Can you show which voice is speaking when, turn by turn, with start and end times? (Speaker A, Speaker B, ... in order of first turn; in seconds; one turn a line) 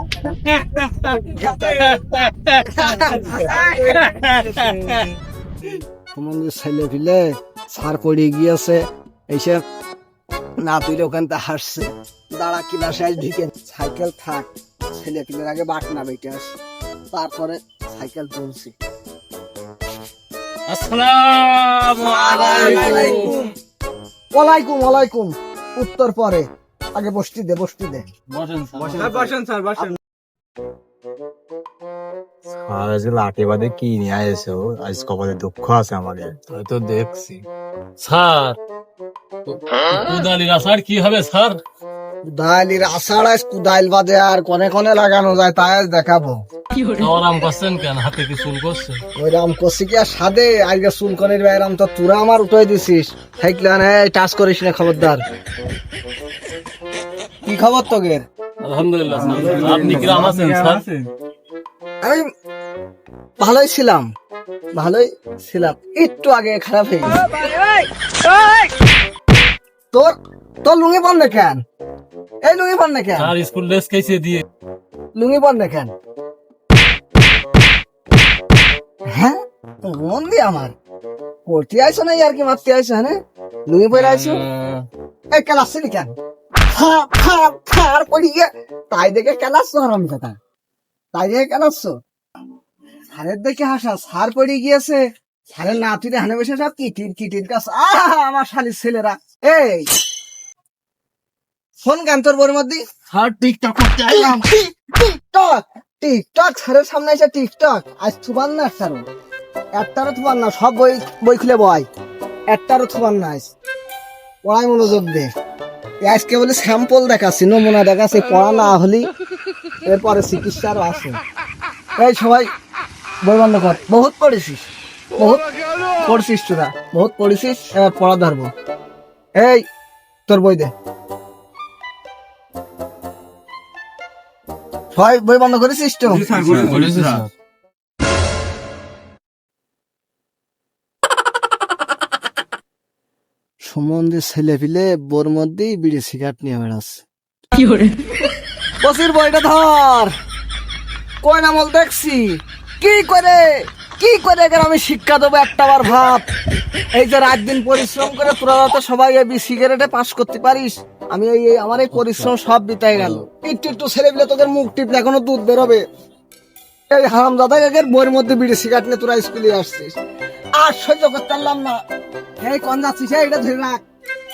Speaker A: 0.4-5.1
Speaker B: 2.7-4.0
Speaker B: 6.1-9.6
Speaker B: 10.6-16.5
Speaker B: 17.1-18.7
Speaker A: 20.7-23.5
Speaker B: 22.0-23.4
Speaker B: 24.3-28.1
Speaker A: 28.3-29.4
Speaker C: 29.0-29.8
Speaker D: 32.6-36.4
Speaker A: 36.5-37.4
Speaker A: 38.0-38.6
Speaker A: 39.5-41.6
Speaker B: 42.2-46.4
Speaker A: 46.9-49.0
Speaker B: 49.1-55.2
Speaker B: 57.4-58.2
Speaker A: 58.6-61.1
Speaker B: 59.5-60.1
Speaker C: 59.5-60.4
Speaker B: 63.4-64.1
Speaker B: 64.7-67.2
Speaker B: 69.9-71.6
Speaker B: 72.4-73.3
Speaker A: 73.2-74.4
Speaker B: 75.1-75.9
Speaker B: 79.1-80.7
Speaker B: 81.5-83.2
Speaker B: 83.7-84.4
Speaker A: 83.9-84.8
Speaker B: 85.3-86.1
Speaker B: 86.7-90.4
Speaker B: 91.1-91.9
Speaker B: 93.1-99.9
Speaker B: 101.8-102.8
Speaker B: 103.4-109.0
Speaker B: 109.8-111.9
Speaker B: 112.5-113.5
Speaker B: 114.4-115.3
Speaker B: 116.0-119.1
Speaker B: 119.8-121.2
Speaker B: 122.0-122.5
Speaker B: 123.2-124.6
Speaker B: 125.2-125.4
Speaker B: 126.0-128.5
Speaker B: 129.4-129.6
Speaker B: 130.3-130.7
Speaker B: 134.9-136.6
Speaker A: 136.2-137.3
Speaker C: 136.6-136.9
Speaker B: 143.6-147.0
Speaker B: 148.8-150.1
Speaker B: 151.2-156.2
Speaker B: 156.9-165.8
Speaker A: 161.9-162.3
Speaker A: 162.9-163.2
Speaker B: 166.9-169.9
Speaker B: 170.6-171.8
Speaker B: 172.4-173.8